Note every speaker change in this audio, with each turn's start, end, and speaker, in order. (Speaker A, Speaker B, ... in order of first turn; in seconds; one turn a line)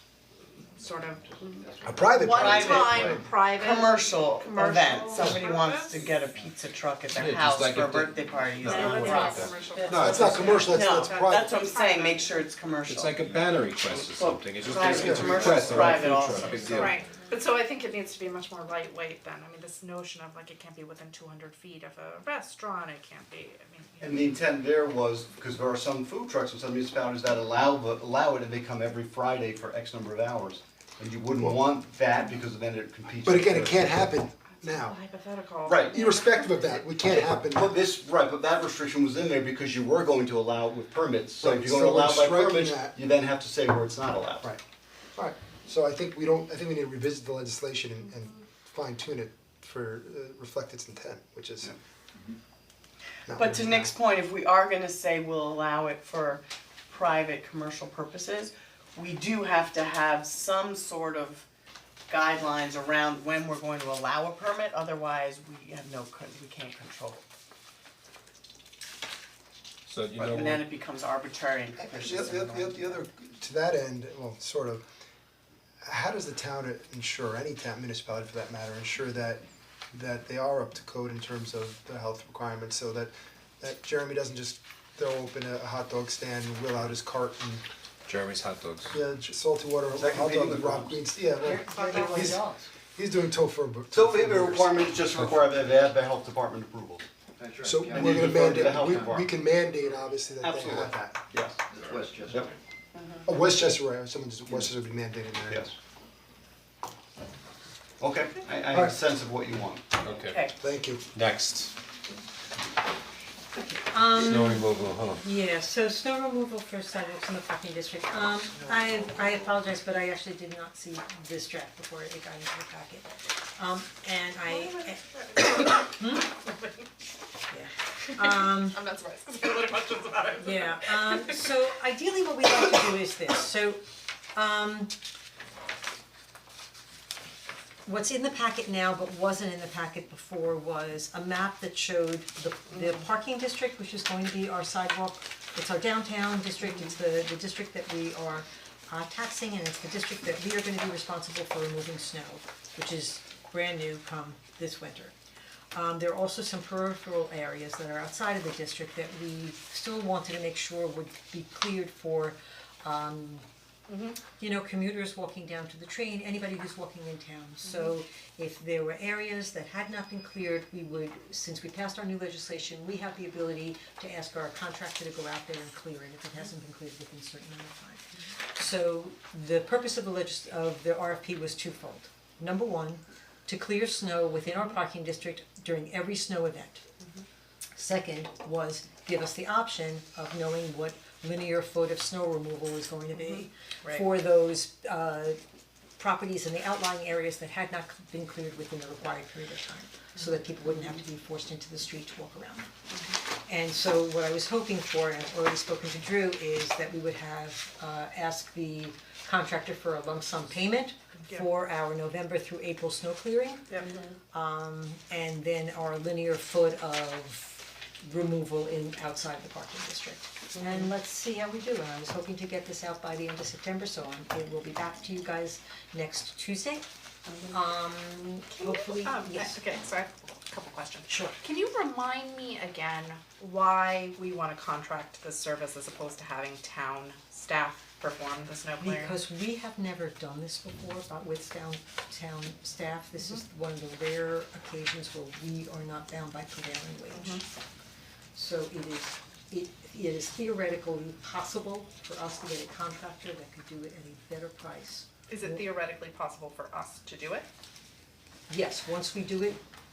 Speaker A: 0.5-6.2
Speaker B: 1.8-3.1
Speaker C: 1.8-3.3
Speaker D: 2.4-3.0
Speaker D: 3.5-9.4
Speaker E: 7.2-10.7
Speaker F: 8.5-9.0
Speaker A: 8.6-12.4
Speaker C: 10.0-11.5
Speaker D: 10.7-13.0
Speaker E: 12.9-17.0
Speaker D: 14.2-16.8
Speaker C: 14.9-15.4
Speaker F: 15.0-16.8
Speaker A: 16.6-24.3
Speaker G: 24.0-34.0
Speaker C: 33.2-35.0
Speaker A: 34.6-36.9
Speaker G: 35.6-36.0
Speaker C: 35.9-37.8
Speaker G: 37.0-44.5
Speaker C: 41.4-43.0
Speaker C: 45.2-51.7
Speaker C: 53.3-53.9
Speaker D: 53.4-61.5
Speaker D: 62.1-67.2
Speaker E: 69.9-70.7
Speaker D: 70.3-73.0
Speaker C: 71.8-74.8
Speaker G: 71.9-72.8
Speaker C: 75.8-87.6
Speaker E: 88.1-89.0
Speaker C: 88.9-92.4
Speaker G: 89.9-91.0
Speaker F: 91.4-92.7
Speaker A: 91.8-92.1
Speaker C: 93.0-94.7
Speaker G: 93.9-97.1
Speaker B: 97.4-99.2
Speaker C: 97.6-101.2
Speaker G: 97.9-99.3
Speaker G: 100.4-101.6
Speaker B: 101.7-102.5
Speaker G: 102.3-102.5
Speaker C: 103.3-105.7
Speaker G: 105.5-105.7
Speaker G: 108.0-110.0
Speaker E: 110.0-110.4
Speaker C: 110.6-111.0
Speaker E: 111.1-111.7
Speaker F: 113.6-125.1
Speaker E: 114.1-115.2
Speaker A: 124.5-126.8
Speaker F: 125.6-126.3
Speaker F: 127.5-128.8
Speaker A: 128.1-131.4
Speaker F: 130.4-133.8
Speaker F: 134.3-135.0
Speaker F: 137.8-155.2
Speaker F: 155.7-163.5
Speaker A: 163.9-164.2
Speaker F: 164.4-186.8
Speaker A: 167.6-167.9
Speaker F: 187.7-195.4
Speaker A: 193.1-194.0
Speaker F: 196.0-202.7
Speaker A: 202.9-203.2
Speaker F: 203.4-226.9
Speaker A: 211.1-211.5
Speaker A: 213.7-214.1
Speaker A: 220.6-220.8
Speaker F: 227.5-229.6
Speaker A: 228.5-239.2
Speaker F: 231.1-231.4
Speaker F: 238.8-247.5
Speaker A: 243.2-243.4
Speaker A: 247.1-247.4
Speaker F: 248.3-255.7
Speaker A: 255.3-257.5
Speaker F: 258.5-259.6